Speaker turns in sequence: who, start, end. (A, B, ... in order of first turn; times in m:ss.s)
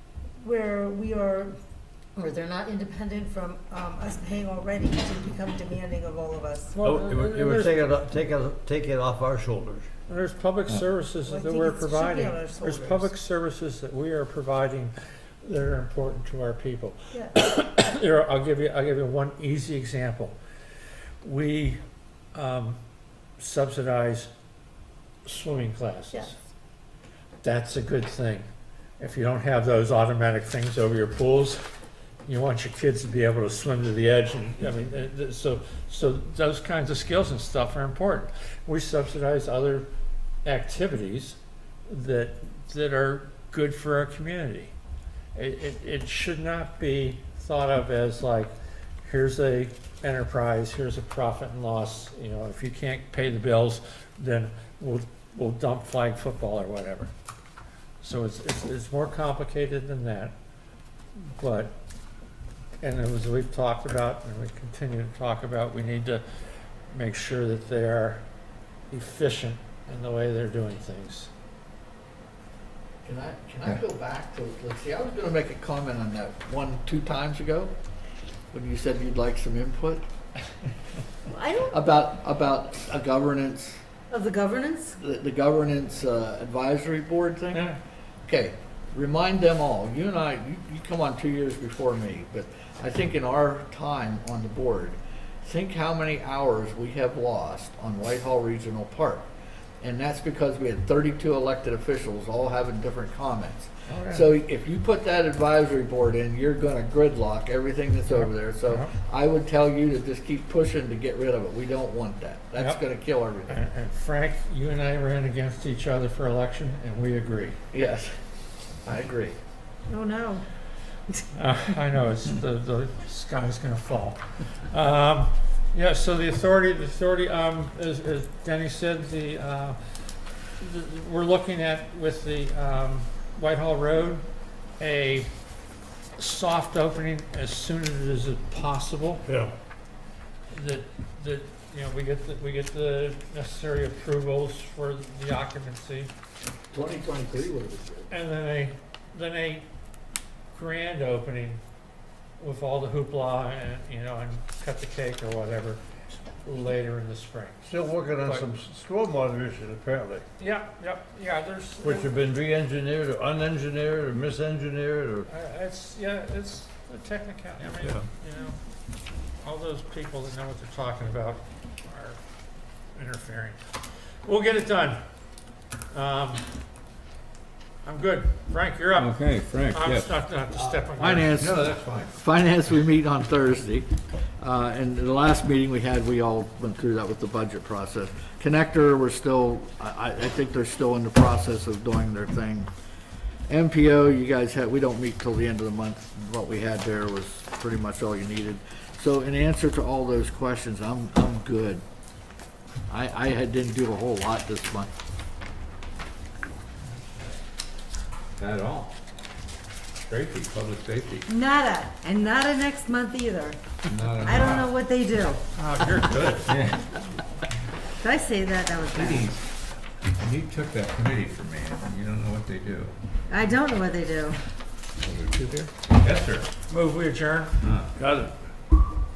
0:00.4-0:01.5 A
0:02.2-0:07.2 A
0:06.8-0:09.9 B
0:06.8-0:07.8 C
0:10.1-0:20.4 C
0:11.3-0:13.1 A
0:21.2-0:21.8 C
0:22.3-0:22.8 C
0:23.4-0:24.3 C
0:25.2-0:26.4 C
0:27.4-0:28.5 C
0:29.0-0:31.6 C
0:32.3-0:39.9 C
0:40.4-0:44.7 C
0:45.3-0:48.5 C
0:49.0-0:57.1 C
0:58.0-1:00.4 C
1:01.3-1:01.7 C
1:02.8-1:06.2 C
1:06.9-1:08.2 C
1:08.9-1:11.3 C
1:13.0-1:17.7 D
1:18.5-1:20.0 D
1:21.3-1:21.8 A
1:21.7-1:23.8 D
1:24.1-1:25.0 A
1:25.0-1:27.6 D
1:27.5-1:27.8 C
1:28.2-1:39.3 D
1:39.8-1:53.6 D
1:43.9-1:44.3 C
1:48.1-1:48.9 C
1:52.6-1:52.8 C
1:53.4-1:57.6 C
1:57.7-1:58.1 D
1:58.8-1:59.4 D
1:59.9-2:00.5 A
2:01.3-2:09.8 C
2:10.6-2:14.2 C
2:14.8-2:15.3 C
2:16.2-2:19.2 C
2:19.2-2:19.5 B
2:20.5-2:26.1 C
2:26.7-2:28.1 B
2:28.1-2:29.7 C
2:30.5-2:31.6 C
2:32.4-2:35.8 C
2:36.4-2:38.5 C
2:37.6-2:40.2 B
2:40.4-2:42.2 C
2:41.8-2:45.3 B
2:45.3-2:48.6 C
2:49.4-2:52.2 C
2:53.0-2:53.6 C
2:54.2-2:55.0 C
2:55.9-2:56.5 C
2:57.8-3:01.3 C
2:59.0-3:00.1 E
3:01.0-3:03.9 D
3:01.4-3:02.1 E
3:04.4-3:12.7 D
3:13.5-3:21.8 D
3:22.9-3:24.9 D
3:28.4-3:29.0 E
3:30.0-3:31.2 E
3:31.3-3:33.6 A
3:33.9-3:34.7 E
3:34.2-3:35.4 A
3:35.6-3:36.6 C
3:36.4-3:36.8 E
3:38.0-3:39.3 A
3:38.9-3:39.5 E
3:40.2-3:43.0 E
3:43.3-3:44.4 A
3:45.0-3:46.5 E
3:46.7-3:47.6 C
3:47.6-3:47.9 E
3:48.0-3:48.3 B